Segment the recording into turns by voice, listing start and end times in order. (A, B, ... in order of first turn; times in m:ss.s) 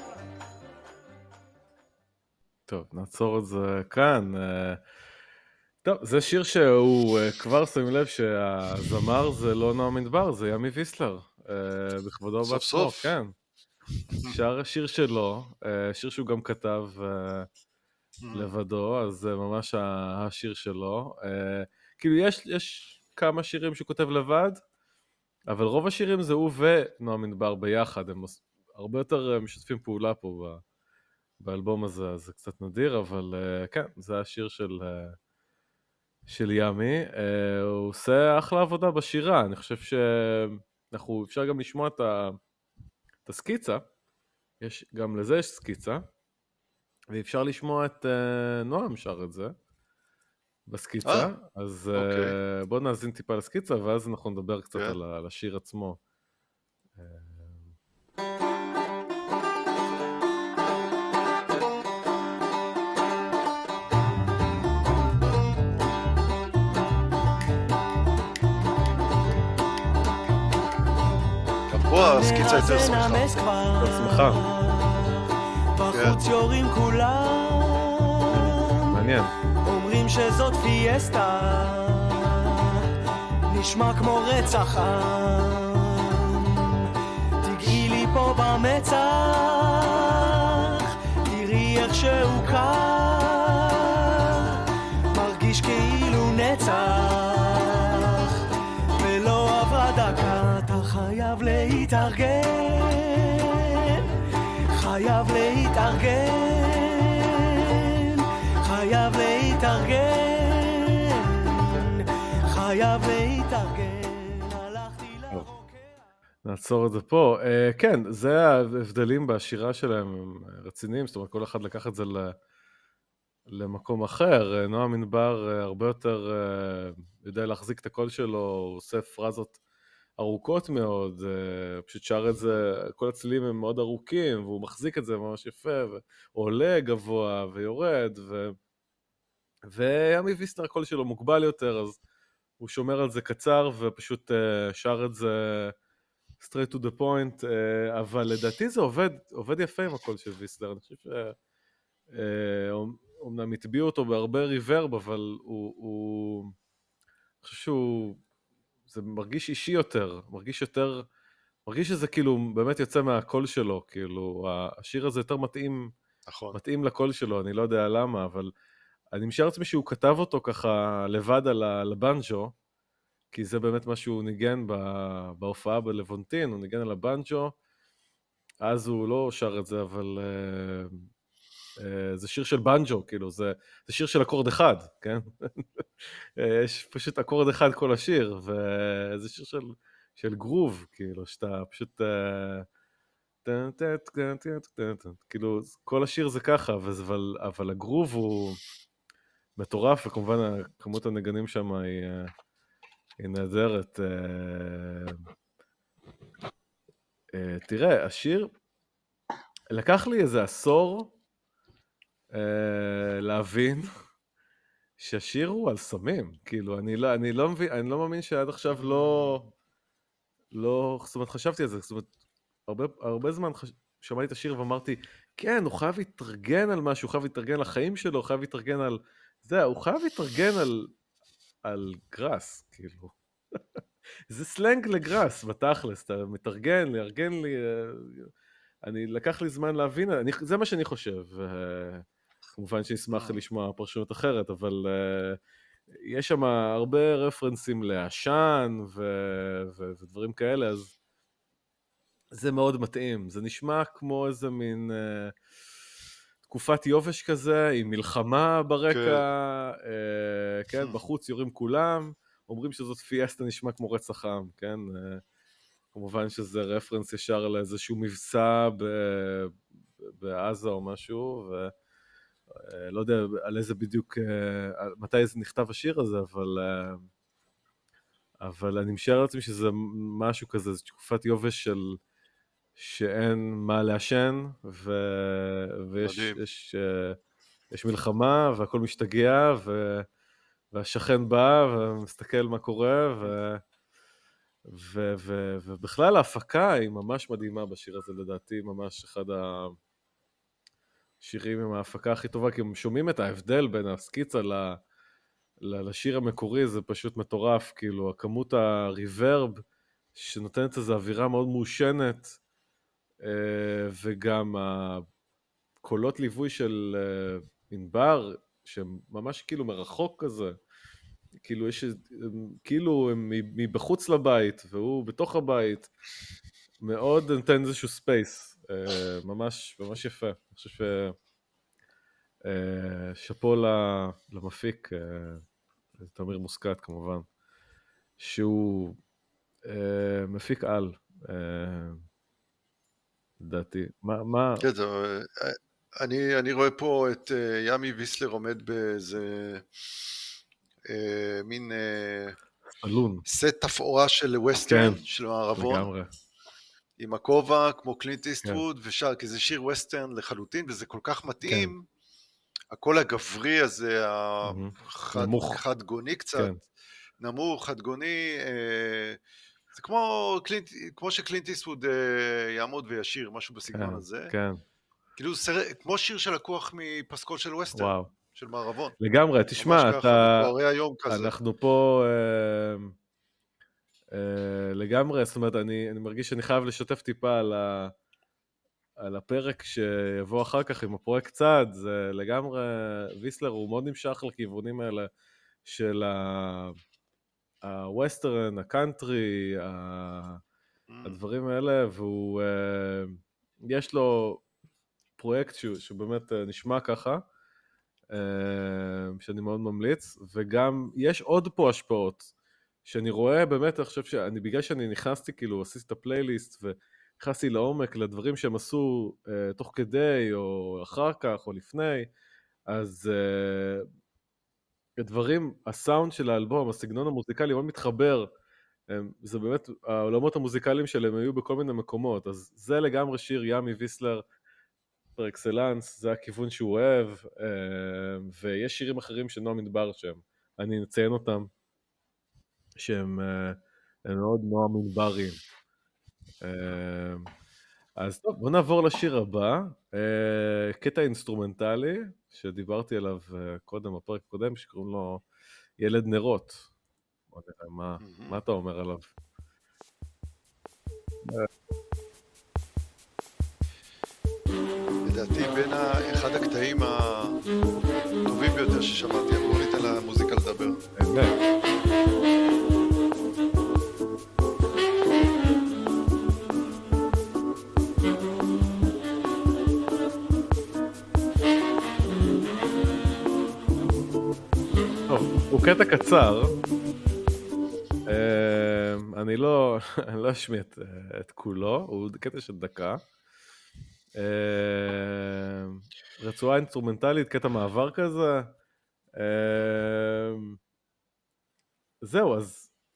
0:02.7-0:04.8 A
0:05.8-0:13.3 A
0:12.4-0:13.1 B
0:14.2-0:17.5 A
0:18.2-0:18.5 B
0:18.3-0:24.6 A
0:25.5-0:30.6 A
0:31.4-0:35.2 A
0:36.3-0:42.4 A
0:43.2-0:43.8 A
0:44.6-0:46.0 A
0:47.1-0:49.5 A
0:50.7-0:56.0 A
0:51.0-0:51.3 B
0:52.0-0:52.4 B
0:57.0-0:57.7 A
1:11.7-1:13.3 B
1:12.0-1:18.8 C
1:13.8-1:14.4 A
1:15.9-1:16.2 B
1:18.8-1:19.3 A
1:19.6-1:22.9 C
1:23.4-1:56.0 C
1:56.4-2:02.4 A
2:03.5-2:09.6 A
2:10.2-2:18.6 A
2:19.7-2:22.0 A
2:22.6-2:25.7 A
2:26.4-2:31.4 A
2:32.1-2:36.5 A
2:37.4-2:38.2 A
2:38.9-2:41.0 A
2:41.6-2:45.9 A
2:46.3-2:46.6 B
2:46.5-2:48.5 A
2:49.1-2:52.5 A
2:53.3-2:57.5 A
2:58.6-3:01.1 A
3:01.8-3:12.7 A
3:13.4-3:18.6 A
3:19.6-3:22.3 A
3:23.2-3:25.2 A
3:27.3-3:28.5 A
3:29.7-3:31.1 A
3:32.3-3:33.9 A
3:35.0-3:39.5 A
3:38.8-3:39.4 B
3:40.5-3:42.1 A
3:42.7-3:50.9 A
3:51.6-3:53.6 A
3:54.3-3:58.3 A
3:58.8-4:05.4 A
4:03.1-4:03.4 B
4:05.9-4:10.9 A
4:12.3-4:15.3 A
4:16.4-4:25.2 A
4:18.9-4:19.2 B
4:20.8-4:21.1 B
4:25.9-4:31.7 A
4:32.5-4:37.1 A
4:38.4-4:42.0 A
4:42.8-4:47.2 A
4:46.0-4:46.4 B
4:47.7-4:50.0 A
4:50.7-4:53.6 A
4:54.7-4:59.8 A
5:01.2-5:04.8 A
5:05.6-5:09.6 A
5:10.1-5:12.4 A
5:13.2-5:15.0 A
5:15.8-5:20.6 A
5:21.4-5:25.9 A
5:26.8-5:31.1 A
5:32.4-5:35.4 A
5:36.0-5:37.2 A
5:38.2-5:39.0 A
5:39.6-5:42.0 A
5:43.4-5:44.7 A
5:44.6-5:49.7 B
5:50.9-5:52.4 B
5:52.7-5:53.2 A
5:53.2-5:55.9 B
5:54.7-5:55.0 A
5:55.6-5:56.1 A
5:57.0-6:01.8 B
6:01.4-6:01.7 A
6:02.7-6:06.5 B
6:04.4-6:05.6 A
6:07.2-6:09.2 B
6:09.7-6:14.3 B
6:13.7-6:14.6 A
6:15.2-6:19.0 B
6:17.7-6:18.1 A
6:19.0-6:20.5 A
6:19.6-6:21.3 B
6:21.1-6:22.9 A
6:24.1-6:27.9 A
6:29.0-6:35.1 A
6:35.6-6:36.8 A
6:37.6-6:40.4 A
6:40.9-6:41.2 B
6:41.0-6:44.4 A
6:45.2-6:47.2 A
6:48.1-6:52.3 A
6:52.8-7:02.1 A
7:02.7-7:03.9 A
7:05.0-7:08.3 A
7:08.9-7:14.2 A
7:15.2-7:21.5 A
7:22.8-7:25.4 A
7:26.4-7:27.3 A
7:28.0-7:35.2 A
7:35.8-7:36.7 A
7:37.3-7:39.1 A
7:38.0-7:38.4 B
7:45.0-7:47.4 B
7:48.2-7:50.8 B
7:51.0-7:51.4 A
8:05.1-8:06.6 A
8:08.1-8:13.0 A
8:14.2-8:18.5 A
8:19.2-8:20.6 A
8:22.0-8:22.7 A